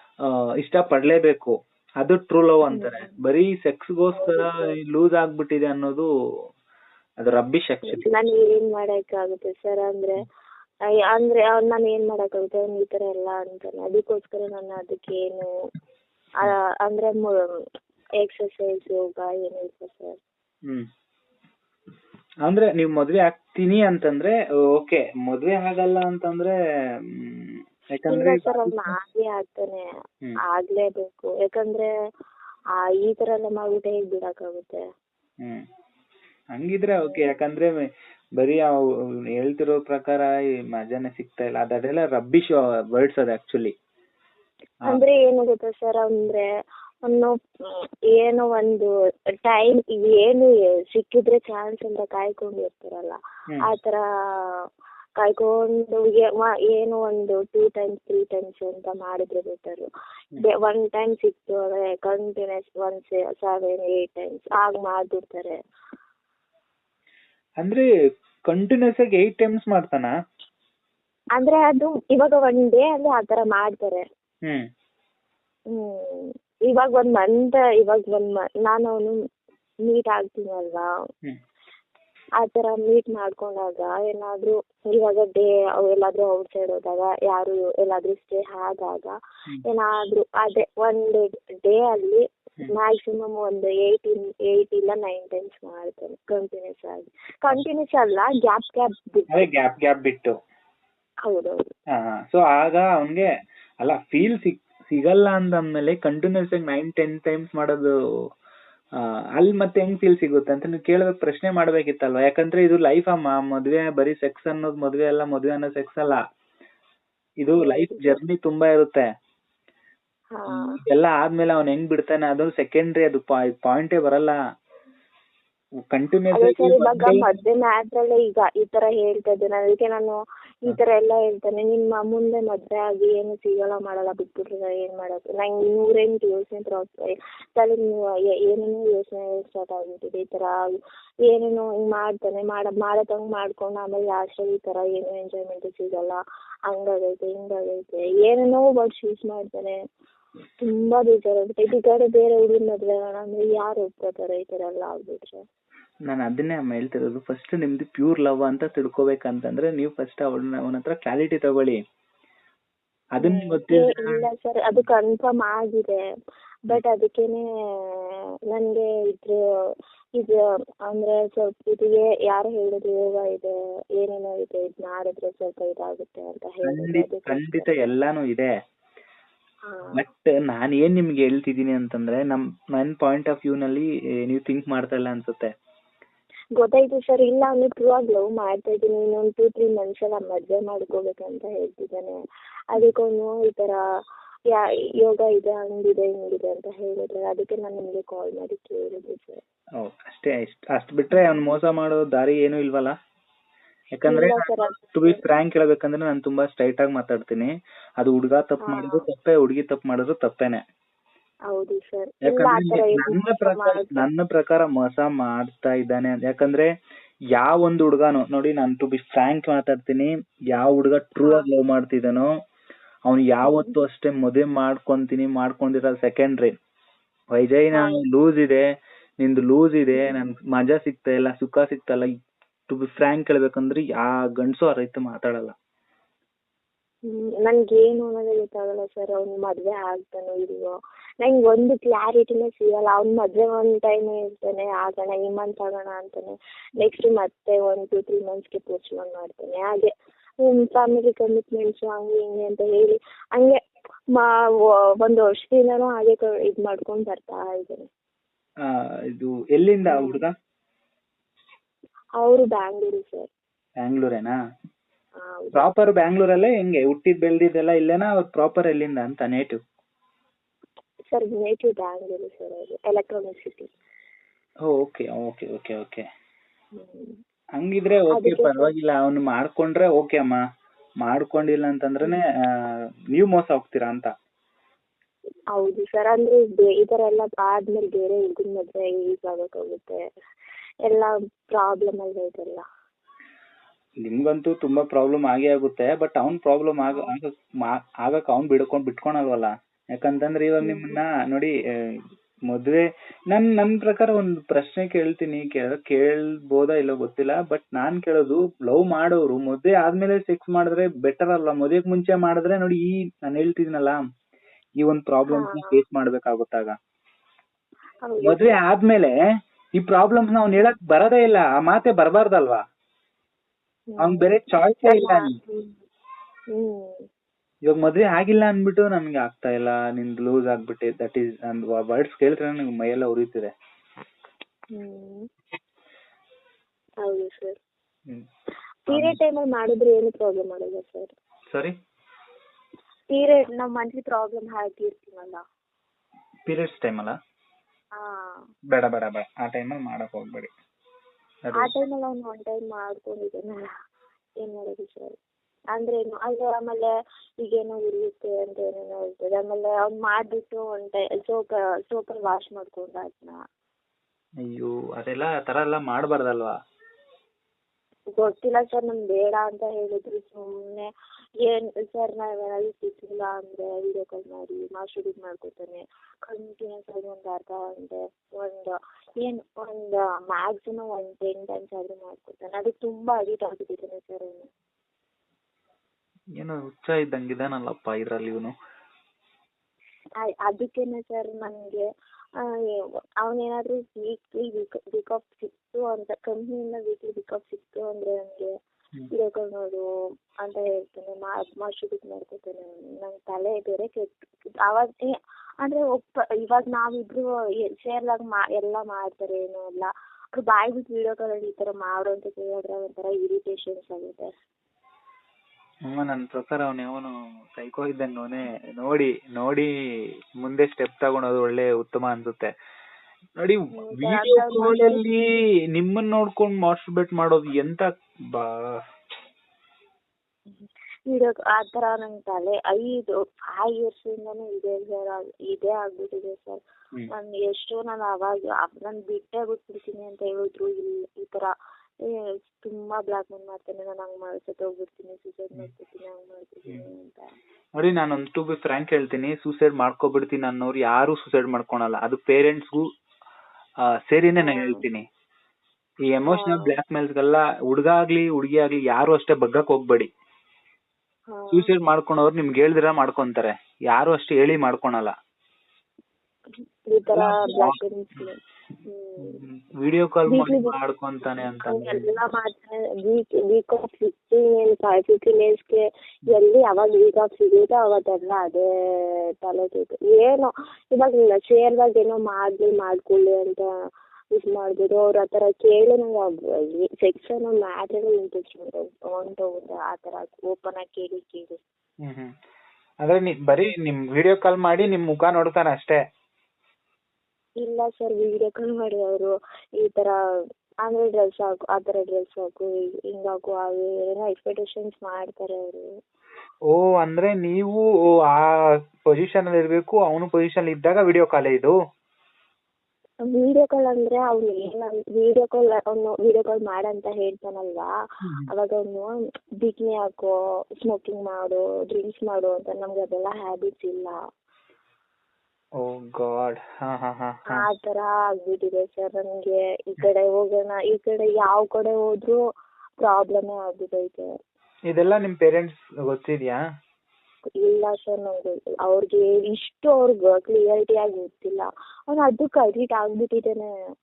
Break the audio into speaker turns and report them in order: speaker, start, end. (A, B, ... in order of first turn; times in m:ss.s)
0:00.2-0:06.1 A
0:02.7-0:03.2 B
0:04.1-0:04.8 B
0:07.2-0:08.1 A
0:07.9-0:10.2 B
0:11.1-0:15.5 B
0:16.4-0:17.4 B
0:18.2-0:20.2 B
0:22.4-0:26.5 A
0:27.1-0:28.8 A
0:28.1-0:29.8 B
0:30.5-0:31.9 B
0:32.8-0:34.8 B
0:36.5-0:37.7 A
0:37.0-0:37.3 B
0:38.4-0:38.8 A
0:39.3-0:43.7 A
0:44.8-0:46.5 B
0:47.0-0:47.3 B
0:48.1-0:48.9 B
0:49.4-0:54.6 B
0:55.2-1:05.6 B
1:07.6-1:07.9 A
1:08.5-1:10.1 A
1:11.4-1:14.0 B
1:15.7-1:19.2 B
1:19.9-1:20.9 B
1:22.4-1:39.5 B
1:39.3-1:40.3 A
1:41.3-1:41.6 B
1:42.0-1:43.2 A
1:43.8-1:47.9 A
1:49.0-1:56.2 A
1:57.4-1:59.0 A
1:57.6-1:58.2 B
2:00.3-2:00.8 B
2:00.5-2:04.4 A
2:05.8-2:07.2 A
2:06.3-2:16.9 B
2:17.6-2:20.6 B
2:21.2-2:29.8 B
2:30.6-2:35.4 B
2:36.1-2:41.8 A
2:43.2-2:44.2 A
2:43.2-2:46.0 B
2:46.7-2:49.4 B
2:50.9-2:57.7 B
2:56.7-2:58.5 A
2:59.7-3:00.0 B
3:00.0-3:05.5 A
3:06.6-3:12.1 B
3:12.7-3:13.8 B
3:14.5-3:19.4 B
3:19.8-3:22.9 A
3:21.1-3:21.4 B
3:24.0-3:30.6 A
3:24.0-3:25.2 B
3:28.6-3:29.0 B
3:31.5-3:34.0 B
3:32.2-3:36.7 A
3:37.3-3:42.3 A
3:43.0-3:46.5 A
3:43.4-3:43.8 B
3:47.3-3:48.6 A
3:47.7-3:48.0 B
3:49.2-3:52.1 A
3:52.7-3:55.6 A
3:57.1-4:09.9 B
4:10.4-4:13.6 B
4:15.0-4:17.9 B
4:19.1-4:20.3 A
4:19.9-4:20.2 B
4:22.2-4:23.3 B
4:23.8-4:24.4 A
4:25.2-4:25.7 B
4:25.5-4:29.6 A
4:31.1-4:33.7 B
4:34.7-4:36.0 A
4:36.8-4:37.2 B
4:37.6-4:40.4 A
4:38.1-4:38.7 B
4:41.0-4:44.1 A
4:45.5-4:50.0 B
4:50.9-4:52.6 B
4:54.0-5:14.0 A
4:56.9-4:57.1 B
5:00.6-5:01.0 B
5:14.8-5:16.8 A
5:15.3-5:15.8 B
5:18.0-5:18.6 B
5:18.2-5:19.1 A
5:19.8-5:22.6 A
5:23.9-5:24.2 B
5:24.0-5:25.3 A
5:24.8-5:25.8 B
5:26.5-5:27.0 B
5:27.7-5:33.5 A
5:34.7-5:35.2 B
5:37.0-5:37.6 B
5:38.9-5:41.1 B
5:38.9-5:39.2 A
5:43.1-5:45.4 B
5:46.5-5:47.1 A
5:48.0-5:48.4 B
5:48.7-5:50.5 A
5:51.4-5:51.7 A
5:51.6-5:53.7 B
5:54.4-5:55.2 B
5:55.7-5:56.9 B
5:57.4-6:03.4 B
6:04.5-6:06.5 A
6:08.2-6:10.9 B
6:11.4-6:24.5 B
6:26.4-6:28.5 A
6:30.2-6:31.8 B
6:32.7-6:38.5 B
6:39.1-6:39.8 B
6:40.4-6:54.3 B
6:55.9-6:59.7 A
7:00.4-7:02.5 A
7:03.4-7:05.2 A
7:03.8-7:05.0 B
7:05.8-7:08.8 A
7:10.5-7:16.6 B
7:17.1-7:21.5 B
7:22.0-7:27.3 B
7:27.8-7:32.8 A
7:34.0-7:35.0 A
7:34.4-7:34.8 B
7:36.1-7:40.1 A
7:36.3-7:36.8 B
7:41.3-7:41.7 B
7:41.5-7:45.1 A
7:46.9-7:49.4 B
7:47.1-7:48.2 A
7:49.2-7:52.1 A
7:50.3-7:50.7 B
7:51.6-8:03.7 B
8:04.3-8:11.6 B
8:12.0-8:12.3 A
8:13.0-8:16.0 A
8:17.6-8:20.1 B
8:20.8-8:25.8 B
8:26.7-8:28.5 A
8:29.1-8:31.7 A
8:33.2-8:37.9 B
8:38.5-8:44.2 B
8:45.8-8:47.6 A
8:47.5-8:52.4 B
8:53.0-8:54.2 B
8:54.9-8:56.6 A
8:57.6-9:03.7 B